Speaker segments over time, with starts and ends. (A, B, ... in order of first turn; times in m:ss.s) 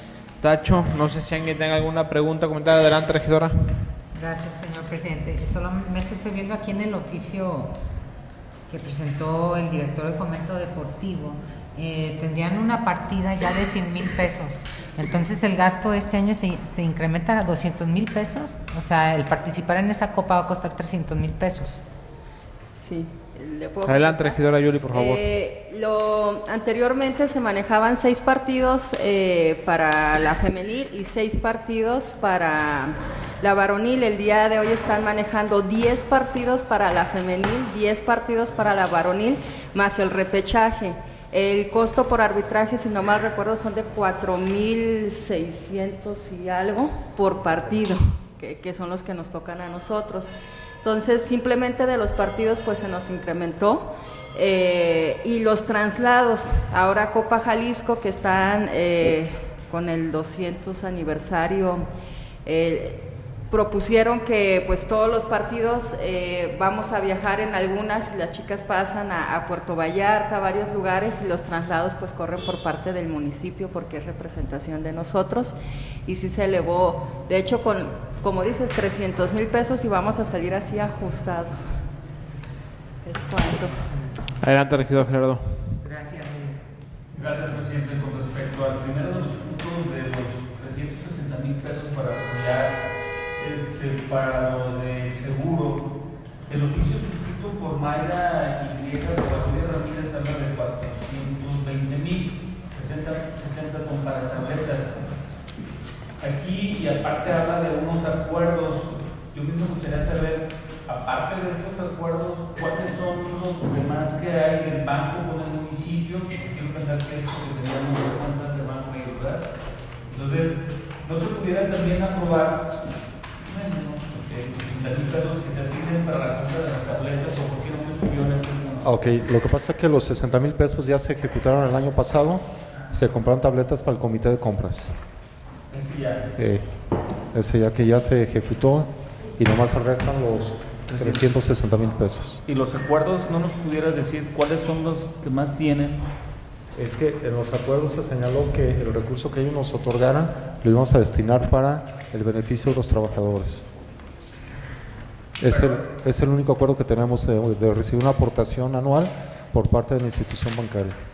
0:00.4-0:03.9 A
0:04.1-0:07.8 B
0:08.7-0:21.8 B
0:22.7-1:01.9 C
0:23.8-0:25.2 A
1:02.4-1:21.7 C
1:23.0-1:23.8 C
1:24.4-1:25.8 A
1:25.8-1:26.6 B
1:27.1-1:32.8 D
1:33.4-1:35.9 D
1:36.5-1:44.9 D
1:46.2-1:59.5 D
2:00.1-2:02.8 D
2:03.4-2:08.8 D
2:08.8-2:15.0 E
2:15.7-2:16.3 D
2:16.4-2:16.7 E
2:17.3-2:22.4 E
2:20.9-2:21.2 D
2:22.5-2:26.0 D
2:26.7-2:33.7 E
2:35.4-2:41.0 E